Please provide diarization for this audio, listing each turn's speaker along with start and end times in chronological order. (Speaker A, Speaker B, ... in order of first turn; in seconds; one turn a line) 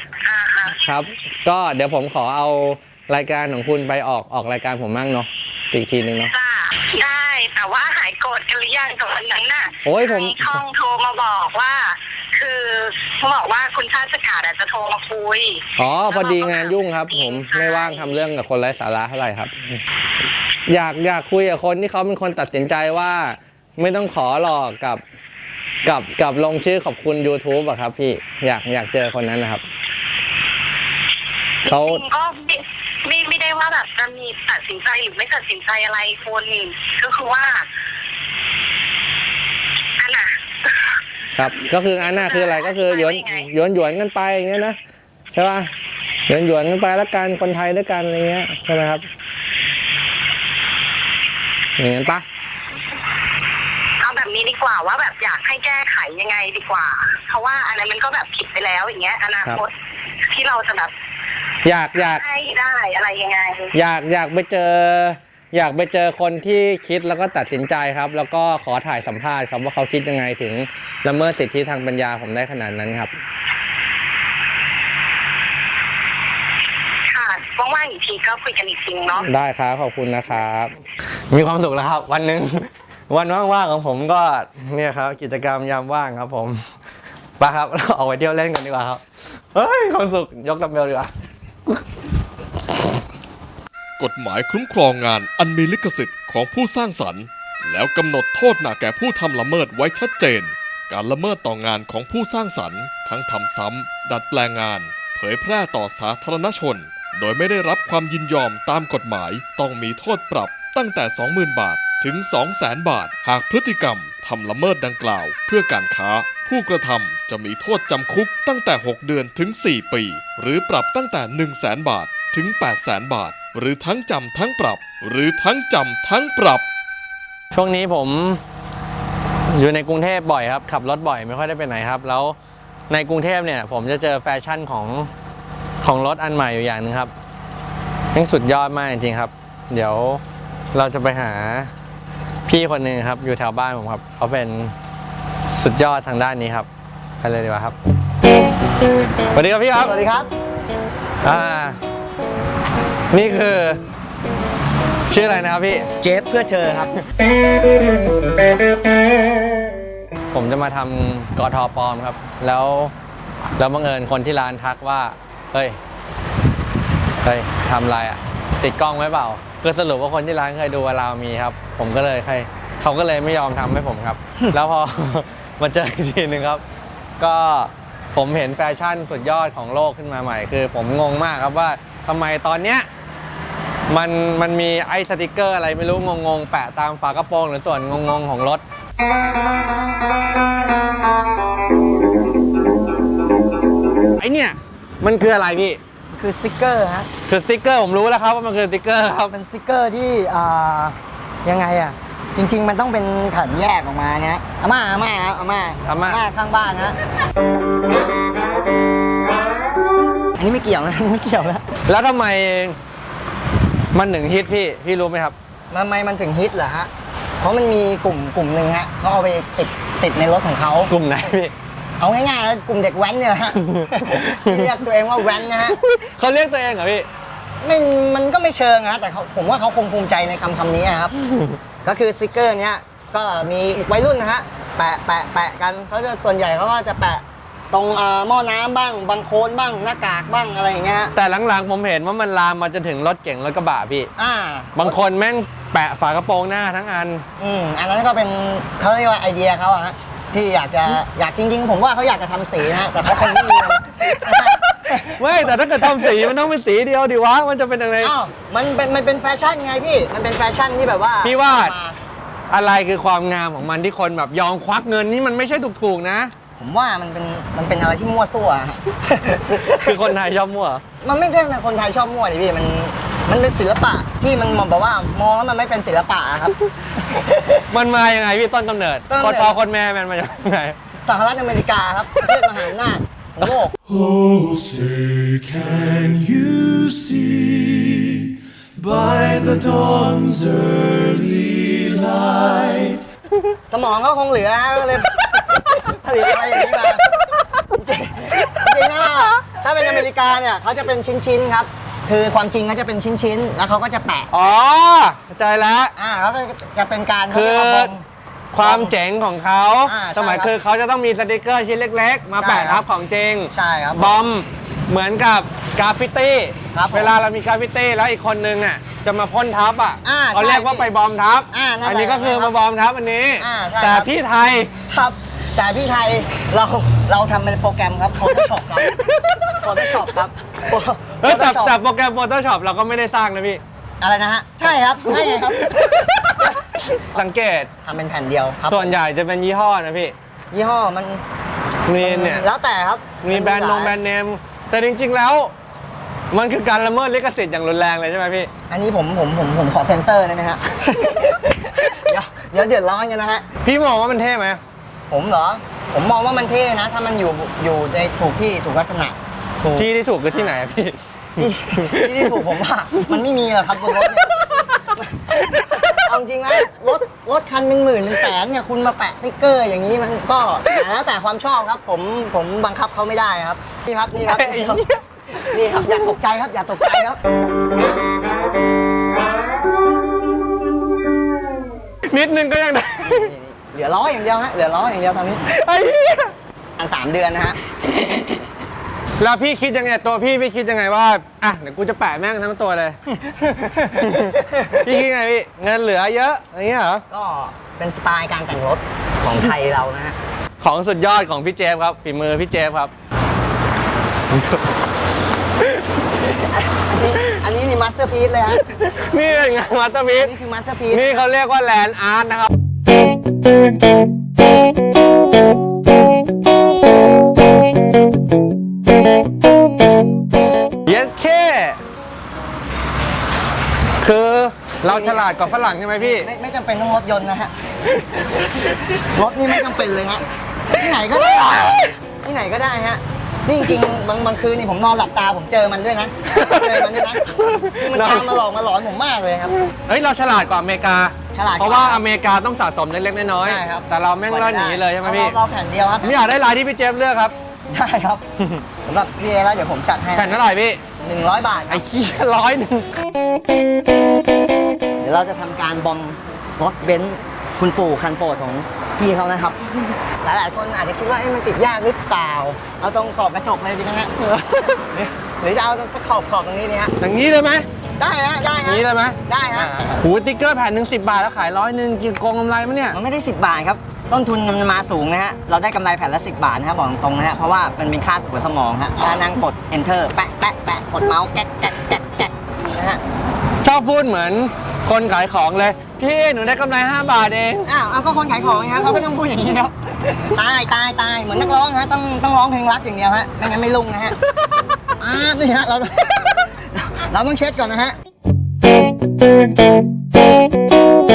Speaker A: 0.2-0.8
Speaker B: 0.8-6.3
Speaker A: 6.3-18.1
Speaker B: 9.8-10.6
Speaker B: 15.8-19.8
Speaker B: 20.7-25.0
Speaker B: 25.8-29.6
Speaker B: 31.6-32.0
Speaker A: 31.6-37.6
Speaker A: 40.0-40.9
Speaker B: 41.3-44.8
Speaker A: 42.0-43.5
Speaker B: 45.3-45.7
Speaker B: 46.3-49.1
Speaker B: 51.8-52.2
Speaker A: 54.0-59.7
Speaker A: 60.3-60.9
Speaker B: 61.6-62.2
Speaker A: 62.0-63.7
Speaker B: 63.7-73.1
Speaker A: 77.1-79.2
Speaker B: 79.2-80.8
Speaker B: 81.3-86.6
Speaker B: 87.4-89.0
Speaker B: 89.5-91.1
Speaker C: 94.0-126.7
Speaker B: 127.5-128.4
Speaker B: 129.5-132.3
Speaker B: 132.9-135.1
Speaker B: 135.8-137.1
Speaker B: 138.1-140.2
Speaker B: 140.7-141.7
Speaker B: 142.5-144.7
Speaker B: 145.5-146.7
Speaker B: 147.2-147.8
Speaker B: 149.3-149.9
Speaker D: 149.8-150.3
Speaker B: 151.2-151.8
Speaker B: 153.1-153.8
Speaker B: 155.1-155.9
Speaker D: 156.0-156.9
Speaker B: 160.3-162.9
Speaker B: 163.6-165.8
Speaker B: 167.2-176.6
Speaker B: 177.2-182.9
Speaker B: 183.9-188.6
Speaker B: 194.2-195.8
Speaker D: 196.2-197.1
Speaker B: 197.3-199.3
Speaker D: 199.3-206.9
Speaker B: 205.8-206.2
Speaker D: 210.4-211.7
Speaker B: 211.9-212.8
Speaker B: 213.9-215.3
Speaker D: 215.7-216.9
Speaker D: 217.4-220.9
Speaker B: 220.9-221.5
Speaker D: 222.0-225.8
Speaker B: 223.6-224.7
Speaker B: 225.7-227.1
Speaker D: 227.6-231.1
Speaker B: 231.3-231.6
Speaker D: 231.8-241.1
Speaker B: 241.1-244.1
Speaker D: 244.2-245.0
Speaker B: 244.7-247.2
Speaker D: 247.4-255.2
Speaker B: 253.3-253.6
Speaker B: 254.2-258.1
Speaker D: 258.0-262.0
Speaker B: 261.2-261.7
Speaker B: 262.5-266.3
Speaker D: 266.6-270.0
Speaker B: 269.8-270.8
Speaker D: 271.0-276.6
Speaker D: 277.1-277.6
Speaker B: 277.7-280.8
Speaker D: 279.1-279.6
Speaker D: 281.0-283.7
Speaker E: 283.8-293.0
Speaker D: 293.7-297.1
Speaker D: 297.7-304.3
Speaker B: 304.3-305.9
Speaker D: 306.0-308.0
Speaker B: 307.3-307.9
Speaker B: 308.5-324.7
Speaker D: 308.6-308.9
Speaker D: 309.8-310.5
Speaker D: 312.4-312.8
Speaker D: 313.5-314.2
Speaker D: 316.7-317.1
Speaker D: 320.0-320.9
Speaker D: 321.5-322.6
Speaker D: 323.4-324.1
Speaker D: 324.9-328.9
Speaker B: 328.9-329.6
Speaker D: 329.6-331.8
Speaker B: 331.2-333.6
Speaker D: 334.0-335.8
Speaker B: 335.1-336.4
Speaker B: 337.0-337.7
Speaker D: 337.8-338.9
Speaker B: 338.7-340.1
Speaker D: 340.5-341.2
Speaker B: 341.9-342.4
Speaker D: 342.0-343.9
Speaker B: 343.2-345.5
Speaker B: 346.3-348.5
Speaker D: 348.7-353.4
Speaker B: 353.6-354.6
Speaker D: 355.1-360.6
Speaker B: 359.7-362.4
Speaker D: 361.4-364.4
Speaker D: 364.9-374.8
Speaker B: 365.3-366.0
Speaker B: 374.3-375.9
Speaker D: 375.4-377.2
Speaker B: 382.1-383.3
Speaker D: 383.0-385.4
Speaker B: 385.5-386.3
Speaker D: 386.8-387.6
Speaker B: 389.2-393.0
Speaker B: 393.9-397.0
Speaker D: 397.1-400.2
Speaker B: 400.6-402.9
Speaker B: 404.3-404.7
Speaker D: 406.3-408.6
Speaker B: 408.8-410.3
Speaker D: 410.2-411.2
Speaker B: 410.9-412.5
Speaker B: 420.9-421.8
Speaker B: 424.0-426.3
Speaker D: 424.8-425.4
Speaker D: 425.9-427.5
Speaker D: 429.0-439.5
Speaker B: 436.3-438.4
Speaker B: 439.9-445.4
Speaker D: 441.3-442.0
Speaker D: 443.4-446.2
Speaker B: 446.0-447.3
Speaker D: 447.7-448.2
Speaker D: 448.8-450.4
Speaker B: 450.1-450.8
Speaker D: 451.0-451.8
Speaker B: 451.7-452.9
Speaker D: 455.0-466.9
Speaker B: 467.0-467.6
Speaker D: 468.0-470.0
Speaker B: 468.6-469.2
Speaker B: 470.0-473.0
Speaker D: 472.9-483.0
Speaker B: 483.6-487.7
Speaker D: 487.7-494.2
Speaker D: 495.0-497.9